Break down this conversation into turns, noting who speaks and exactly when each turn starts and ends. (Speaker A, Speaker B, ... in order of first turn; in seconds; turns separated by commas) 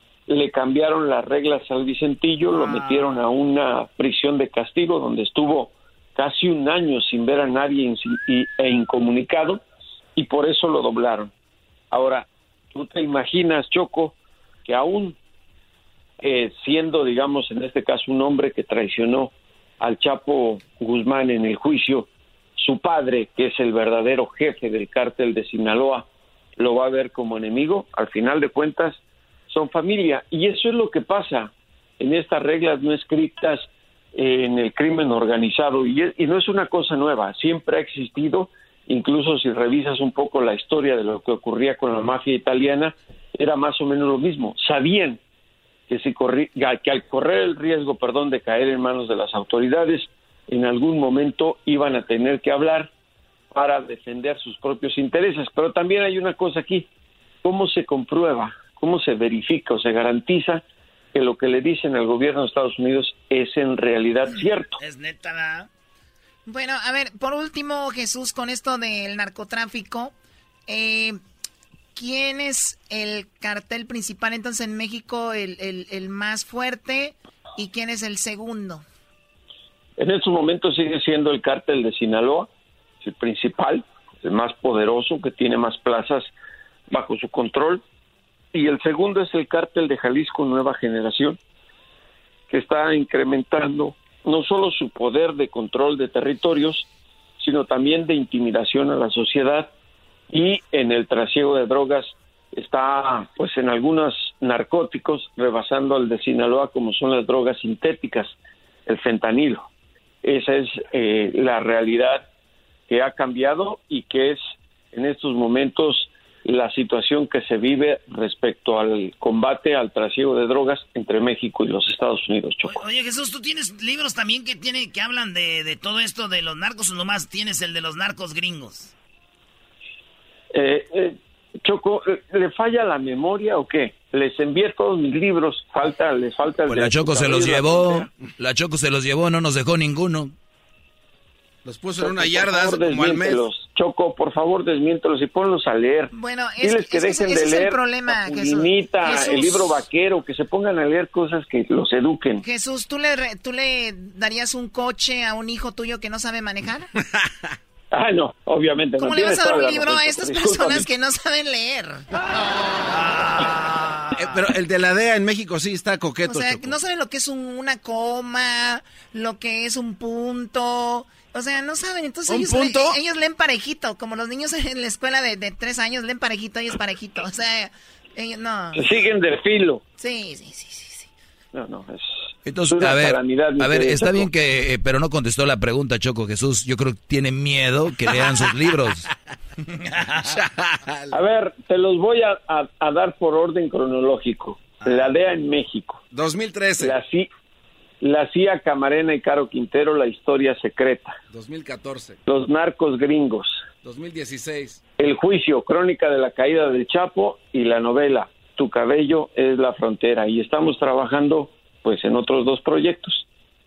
Speaker A: 0.3-9.6, Speaker A: 10.2-11.3, Speaker A: 11.9-14.1, Speaker A: 14.7-15.2, Speaker A: 16.2-26.1, Speaker A: 26.6-29.0, Speaker A: 29.5-45.2, Speaker A: 45.9-52.9, Speaker A: 53.5-56.9, Speaker A: 57.4-60.6, Speaker A: 61.1-64.8, Speaker B: 64.8-65.7, Speaker C: 66.5-70.1, Speaker C: 70.7-71.2, Speaker C: 71.9-78.8, Speaker A: 80.0-82.5, Speaker A: 83.0-86.3, Speaker A: 86.9-87.8, Speaker A: 88.5-91.4, Speaker A: 92.5-96.9, Speaker A: 97.4-99.7, Speaker A: 100.3-108.3, Speaker A: 108.8-109.7, Speaker A: 110.2-112.3, Speaker A: 112.9-114.4, Speaker A: 114.9-122.8, Speaker B: 122.6-128.9, Speaker A: 130.5-138.1, Speaker D: 136.7-140.3, Speaker E: 141.6-143.4, Speaker A: 142.0-152.4, Speaker C: 146.1-149.8, Speaker C: 152.4-156.9, Speaker A: 157.9-160.9, Speaker C: 159.0-162.1, Speaker B: 162.9-164.3, Speaker E: 164.2-166.7, Speaker C: 166.2-178.9, Speaker E: 172.3-173.0, Speaker A: 178.7-179.8, Speaker C: 180.0-181.1, Speaker A: 181.5-184.3, Speaker D: 182.4-189.1, Speaker B: 189.8-190.3, Speaker E: 190.2-191.2, Speaker A: 191.1-196.0, Speaker E: 196.1-196.9, Speaker A: 196.8-197.3, Speaker A: 198.0-201.2, Speaker E: 201.3-202.2, Speaker A: 202.3-203.6, Speaker E: 203.8-204.8, Speaker A: 205.0-213.2